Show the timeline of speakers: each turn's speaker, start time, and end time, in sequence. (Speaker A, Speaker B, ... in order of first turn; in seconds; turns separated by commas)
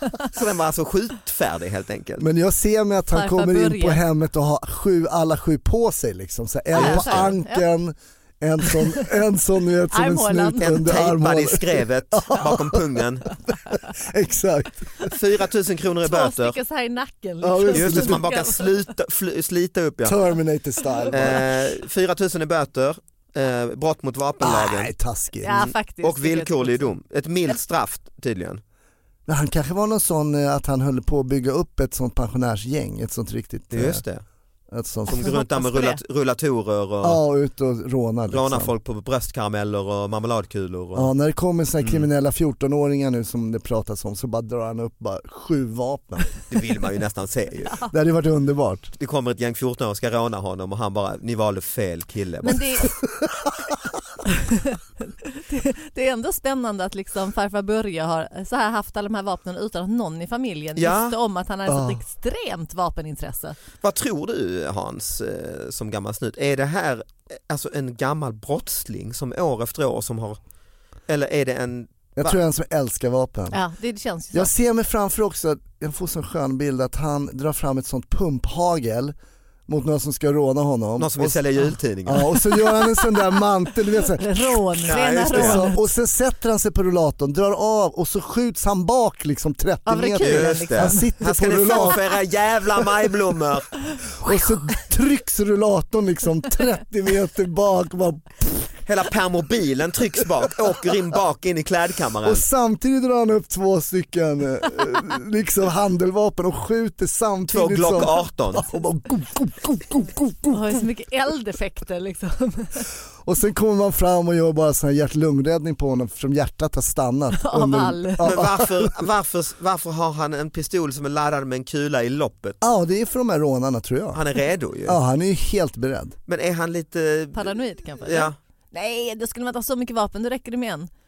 Speaker A: 0.2-2.3, Speaker B: 2.2-13.0, Speaker C: 3.1-4.0, Speaker A: 6.8-7.3, Speaker C: 6.8-7.7, Speaker C: 8.7-9.1, Speaker C: 9.9-10.8, Speaker A: 10.6-13.3, Speaker B: 13.7-14.9, Speaker A: 15.1-16.6, Speaker C: 16.0-18.7, Speaker B: 17.4-18.2, Speaker A: 17.7-20.2, Speaker B: 20.0-21.6, Speaker C: 21.0-21.4, Speaker A: 21.1-24.9, Speaker B: 24.4-25.7, Speaker C: 25.4-26.9, Speaker A: 25.5-28.6, Speaker B: 29.3-34.0, Speaker A: 33.7-34.2, Speaker B: 34.7-35.3, Speaker A: 35.1-37.2, Speaker C: 35.1-36.0, Speaker B: 37.0-38.7, Speaker A: 38.3-41.1, Speaker B: 41.0-46.3, Speaker A: 41.8-42.1, Speaker A: 46.5-47.8, Speaker B: 47.9-48.9, Speaker A: 49.0-52.9, Speaker C: 52.4-52.9, Speaker B: 53.0-53.5, Speaker C: 54.3-63.6, Speaker A: 60.8-61.2, Speaker B: 61.7-62.0, Speaker A: 63.8-70.4, Speaker A: 71.1-72.4, Speaker B: 72.2-73.6, Speaker C: 73.5-74.5, Speaker B: 74.3-79.2, Speaker B: 79.7-81.4, Speaker A: 81.0-82.3, Speaker B: 82.0-92.0, Speaker C: 82.3-83.3, Speaker C: 84.0-85.8, Speaker A: 84.9-85.6, Speaker C: 89.9-91.2, Speaker A: 90.2-93.7, Speaker B: 94.2-98.7, Speaker A: 98.9-102.5, Speaker B: 102.2-110.8, Speaker A: 107.5-108.7, Speaker C: 110.5-112.9, Speaker B: 113.2-118.9, Speaker C: 117.4-118.3, Speaker A: 118.2-122.6, Speaker B: 122.6-124.2, Speaker A: 124.1-125.0, Speaker B: 124.9-126.2, Speaker A: 126.3-128.4, Speaker C: 127.3-130.9